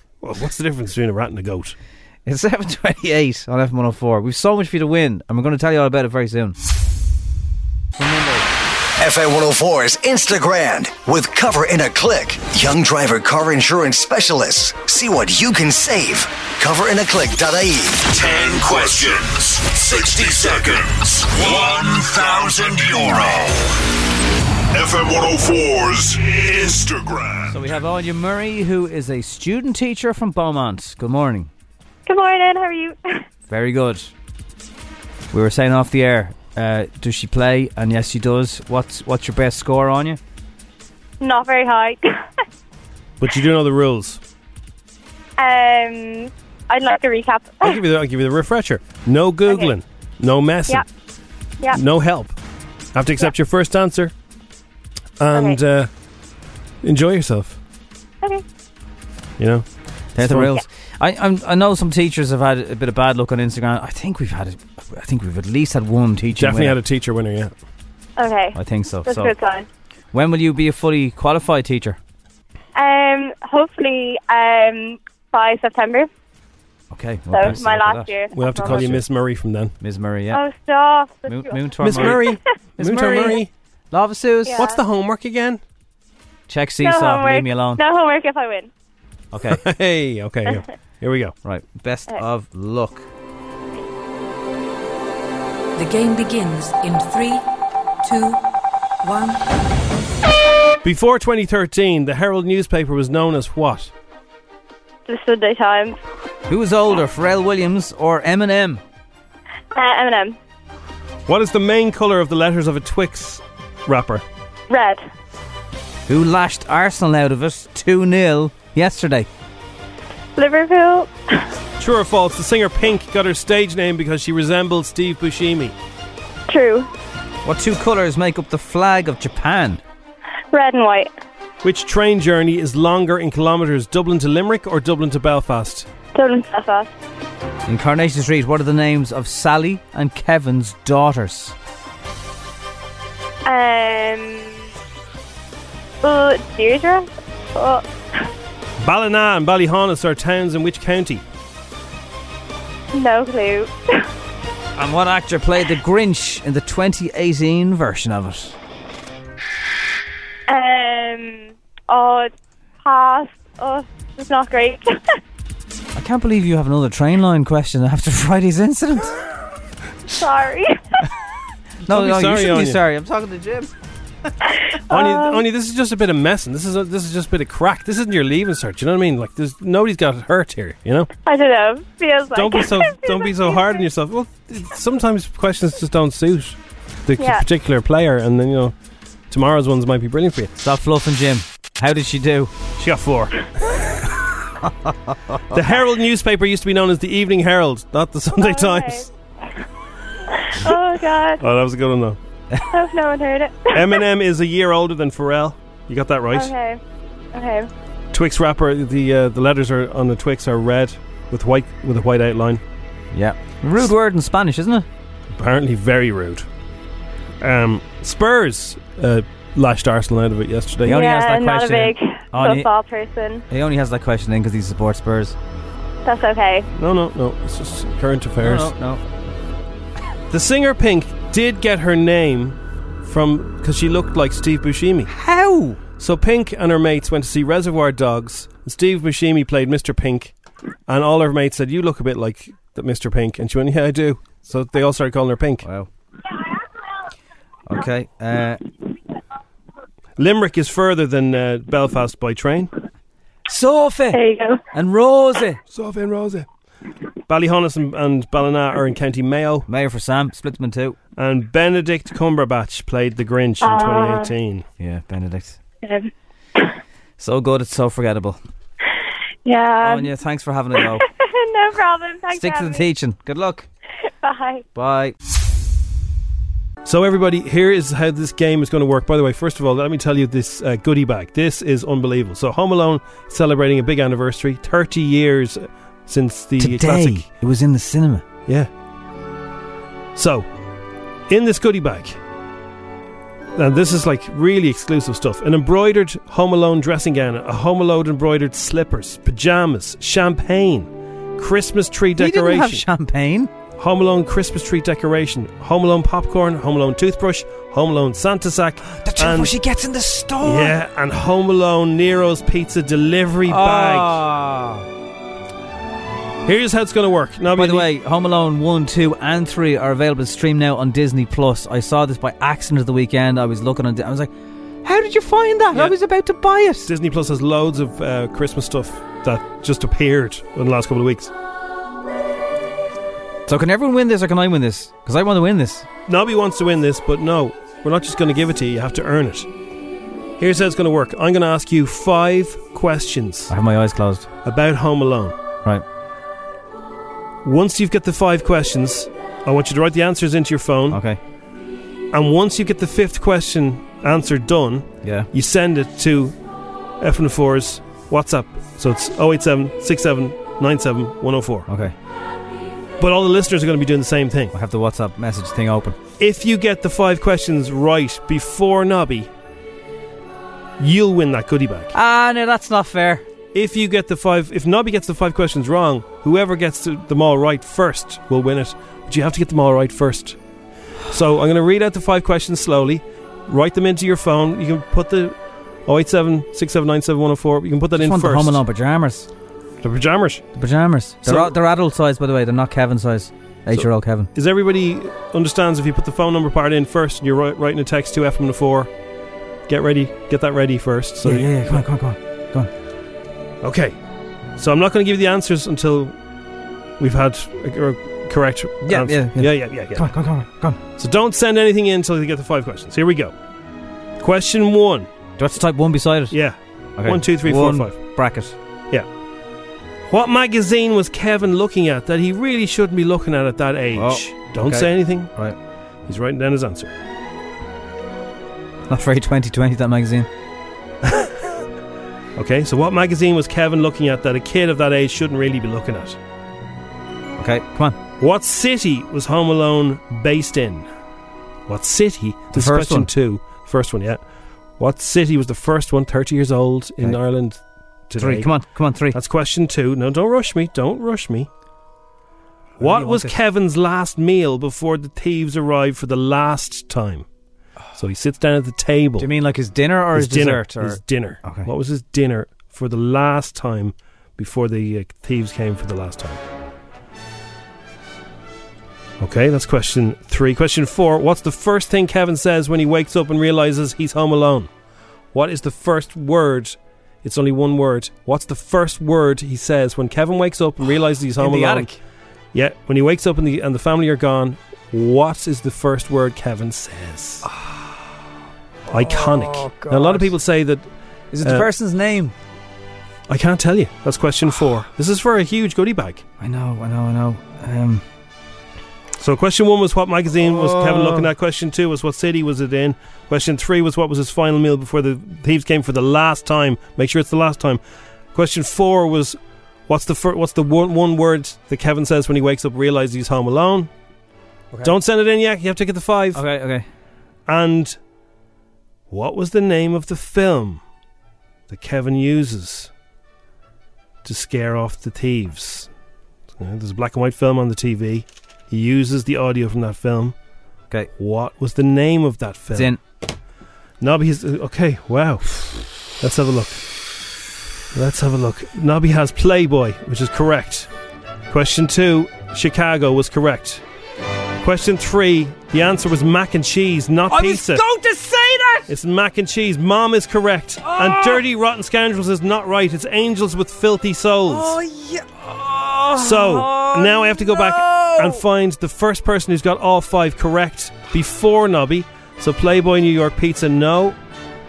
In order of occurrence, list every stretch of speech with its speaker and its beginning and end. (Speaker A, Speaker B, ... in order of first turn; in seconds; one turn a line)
Speaker A: 0.2-1.7
Speaker B: 2.2-6.5
Speaker B: 8.0-8.5
Speaker C: 9.0-19.1
Speaker D: 18.1-23.4
Speaker C: 19.7-23.5
Speaker D: 24.7-27.7
Speaker B: 27.5-31.5
Speaker E: 32.0-33.2
Speaker B: 33.5-34.1
Speaker B: 35.3-40.2
Speaker E: 41.2-42.0
Speaker A: 43.2-44.2
Speaker E: 45.4-47.8
Speaker A: 47.6-50.8
Speaker E: 49.5-49.7
Speaker A: 51.7-52.4
Speaker A: 52.9-54.1
Speaker A: 55.2-55.9
Speaker E: 55.3-55.6
Speaker A: 56.8-57.6
Speaker A: 59.4-59.6
Speaker B: 60.1-66.8
Speaker A: 60.2-60.5
Speaker A: 66.3-67.5
Speaker E: 68.2-69.7
Speaker B: 68.5-69.3
Speaker B: 70.1-72.0
Speaker E: 72.7-76.1
Speaker B: 76.9-79.0
Speaker E: 77.3-78.9
Speaker A: 78.3-79.7
Speaker B: 79.8-80.4
Speaker E: 80.3-82.3
Speaker B: 81.3-84.7
Speaker A: 81.8-83.5
Speaker E: 84.5-84.8
Speaker A: 84.5-85.6
Speaker B: 86.5-87.8
Speaker E: 86.8-88.7
Speaker B: 89.3-89.6
Speaker A: 89.5-91.3
Speaker B: 91.4-93.0
Speaker F: 95.8-97.4
Speaker F: 98.0-98.4
Speaker F: 99.0-99.5
Speaker A: 100.8-103.9
Speaker E: 105.1-106.0
Speaker B: 106.5-108.8
Speaker E: 109.7-110.3
Speaker A: 111.3-114.2
Speaker E: 114.7-115.0
Speaker B: 116.1-119.3
Speaker E: 120.4-121.1
Speaker A: 121.8-125.7
Speaker E: 126.5-126.9
Speaker B: 127.4-129.8
Speaker E: 130.5-131.1
Speaker A: 131.6-135.9
Speaker E: 136.1-136.9
Speaker B: 137.7-141.5
Speaker E: 143.4-144.6
Speaker E: 146.0-147.8
Speaker A: 148.8-151.2
Speaker E: 152.9-153.7
Speaker B: 154.8-158.6
Speaker E: 160.5-162.3
Speaker E: 162.8-165.0
Speaker B: 165.9-169.2
Speaker E: 170.2-170.8
Speaker B: 171.8-173.7
Speaker A: 171.9-172.8
Speaker E: 174.9-175.4
Speaker A: 174.9-181.1
Speaker E: 181.2-183.8
Speaker A: 182.3-188.7
Speaker E: 187.2-187.4
Speaker A: 189.3-190.5
Speaker B: 190.6-192.5
Speaker A: 192.8-193.3
Speaker B: 194.6-195.4
Speaker A: 195.5-199.1
Speaker E: 198.3-199.1
Speaker E: 200.3-201.4
Speaker A: 201.4-202.2
Speaker E: 202.7-204.0
Speaker A: 203.7-206.5
Speaker E: 206.3-206.8
Speaker E: 207.3-207.7
Speaker A: 208.1-212.6
Speaker B: 213.1-214.8
Speaker A: 215.4-216.5
Speaker A: 217.4-221.0
Speaker B: 220.8-222.7
Speaker E: 220.9-223.4
Speaker B: 223.5-225.3
Speaker E: 226.0-226.7
Speaker A: 226.8-228.7
Speaker B: 228.4-229.0
Speaker A: 230.3-235.1
Speaker B: 235.1-235.8
Speaker A: 236.0-240.3
Speaker A: 240.9-245.7
Speaker B: 245.6-245.9
Speaker B: 247.7-248.6
Speaker A: 250.2-252.7
Speaker B: 253.5-255.6
Speaker E: 254.1-254.6
Speaker A: 255.7-256.5
Speaker A: 257.3-259.6
Speaker B: 259.7-261.0
Speaker A: 261.2-264.6
Speaker E: 263.6-264.3
Speaker B: 264.8-265.6
Speaker E: 265.8-266.1
Speaker B: 267.2-268.4
Speaker E: 269.4-270.1
Speaker B: 269.8-271.0
Speaker E: 270.8-272.9
Speaker B: 272.4-273.6
Speaker E: 274.2-274.6
Speaker B: 274.7-275.1
Speaker A: 276.8-287.3
Speaker B: 286.6-288.2
Speaker A: 290.1-290.5
Speaker A: 291.3-292.2
Speaker A: 293.6-302.8
Speaker B: 302.2-303.5
Speaker A: 303.8-309.5
Speaker B: 308.9-310.7
Speaker A: 310.4-314.2
Speaker B: 313.4-314.8
Speaker A: 316.4-317.9
Speaker B: 317.5-324.3
Speaker B: 324.8-326.9
Speaker A: 326.9-331.3
Speaker B: 333.5-335.9
Speaker A: 336.1-339.5
Speaker A: 340.4-343.5
Speaker B: 343.5-344.3
Speaker A: 344.4-345.4
Speaker A: 347.4-351.0
Speaker B: 350.9-351.2
Speaker A: 352.1-356.4
Speaker B: 355.0-355.3
Speaker A: 357.0-361.7
Speaker B: 361.7-361.9
Speaker A: 363.0-364.5
Speaker B: 364.5-366.0
Speaker A: 366.2-369.3
Speaker A: 370.8-371.9
Speaker B: 371.9-373.2
Speaker A: 373.5-380.4
Speaker A: 381.1-388.6
Speaker B: 387.9-389.3
Speaker A: 389.8-390.4
Speaker B: 390.6-394.3
Speaker A: 391.2-391.5
Speaker A: 393.7-398.9
Speaker A: 399.7-401.8
Speaker B: 401.2-402.7
Speaker A: 403.6-403.9
Speaker A: 404.6-406.2
Speaker A: 407.0-410.1
Speaker B: 408.8-410.8
Speaker A: 411.0-413.3
Speaker A: 414.2-415.1
Speaker B: 415.4-416.4
Speaker A: 416.3-418.0
Speaker B: 417.0-418.5
Speaker A: 420.1-425.3
Speaker B: 423.9-425.5
Speaker A: 426.1-426.9
Speaker B: 428.9-430.3
Speaker A: 431.0-431.5
Speaker A: 432.4-436.2
Speaker B: 437.4-438.0
Speaker A: 438.2-440.9
Speaker A: 441.7-444.2
Speaker B: 442.5-443.1
Speaker A: 444.8-448.6
Speaker B: 448.2-449.2
Speaker A: 449.1-451.5
Speaker B: 452.8-453.3
Speaker A: 452.8-457.2
Speaker A: 457.9-459.3
Speaker B: 459.2-461.7
Speaker A: 460.1-466.4
Speaker A: 469.2-474.7
Speaker A: 475.3-481.9
Speaker B: 481.4-481.9
Speaker A: 482.5-487.4
Speaker B: 487.4-487.9
Speaker B: 488.9-490.3
Speaker A: 488.9-490.9
Speaker B: 491.3-492.3
Speaker A: 491.4-491.7
Speaker A: 493.3-496.2
Speaker B: 496.4-498.0
Speaker A: 499.2-507.8
Speaker B: 500.4-501.3
Speaker A: 508.3-513.9
Speaker A: 514.8-516.4
Speaker B: 516.3-516.9
Speaker A: 517.5-518.0
Speaker A: 519.1-520.8
Speaker A: 521.7-522.9
Speaker A: 524.2-525.9
Speaker A: 526.6-530.3
Speaker A: 531.2-532.9
Speaker B: 532.7-533.0
Speaker A: 534.0-536.8
Speaker A: 537.9-540.9
Speaker A: 541.5-543.8
Speaker A: 544.6-547.8
Speaker B: 547.3-548.9
Speaker A: 548.9-554.8
Speaker B: 550.8-551.4
Speaker B: 554.5-558.4
Speaker A: 556.2-564.2